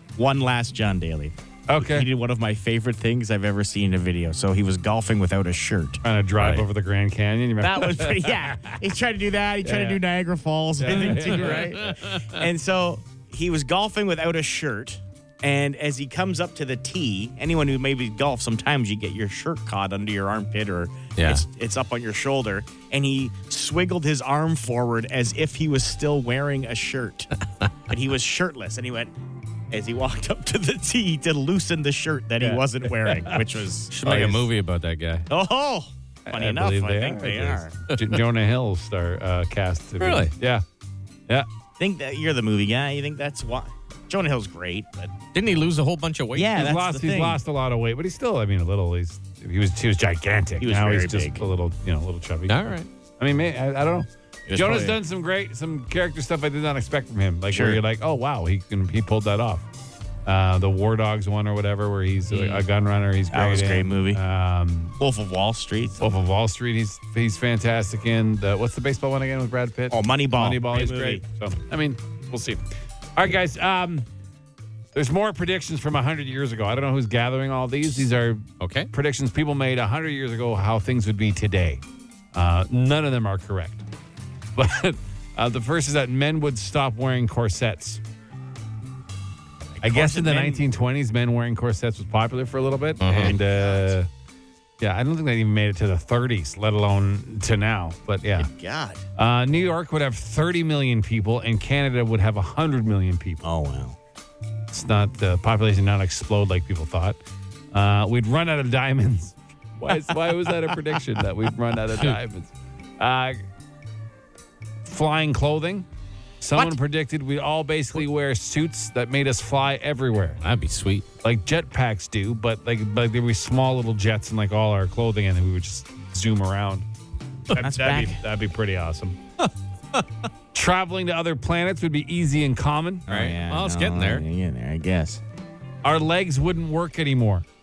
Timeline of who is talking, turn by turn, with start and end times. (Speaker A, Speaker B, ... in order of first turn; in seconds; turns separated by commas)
Speaker A: 0.2-6.0, Speaker B: 1.7-2.1, Speaker B: 6.0-8.8, Speaker A: 7.6-29.1, Speaker B: 9.6-10.0, Speaker B: 10.8-11.8, Speaker C: 10.9-12.4, Speaker C: 21.2-21.4, Speaker A: 29.7-34.4, Speaker B: 32.4-33.4, Speaker C: 33.9-35.3, Speaker A: 35.3-37.8, Speaker B: 36.3-40.6, Speaker C: 40.0-40.3, Speaker A: 41.8-45.3, Speaker C: 45.3-46.6, Speaker A: 46.3-47.4, Speaker B: 46.5-59.7, Speaker A: 50.6-51.5, Speaker C: 52.5-52.9, Speaker A: 54.5-55.0, Speaker A: 57.5-57.8, Speaker B: 60.3-65.0, Speaker C: 62.3-62.6, Speaker A: 63.3-64.2, Speaker A: 65.0-66.1, Speaker B: 66.0-72.6, Speaker A: 69.9-71.2, Speaker B: 73.2-74.1, Speaker B: 75.0-81.8, Speaker C: 78.6-78.9, Speaker B: 82.3-83.8, Speaker B: 84.5-88.0, Speaker A: 89.8-90.7, Speaker B: 89.8-94.1, Speaker C: 93.0-93.4, Speaker A: 93.2-94.0, Speaker B: 94.8-98.5, Speaker A: 98.4-99.0, Speaker B: 99.2-103.4, Speaker A: 103.4-104.0, Speaker B: 104.7-107.2, Speaker B: 107.7-113.4, Speaker A: 109.9-110.2, Speaker B: 114.8-115.9, Speaker B: 116.4-120.4, Speaker C: 120.4-121.1, Speaker B: 121.2-126.9, Speaker B: 127.5-129.2, Speaker A: 127.5-128.2, Speaker B: 130.5-133.1, Speaker A: 133.1-135.2, Speaker C: 133.1-134.2, Speaker B: 135.8-137.4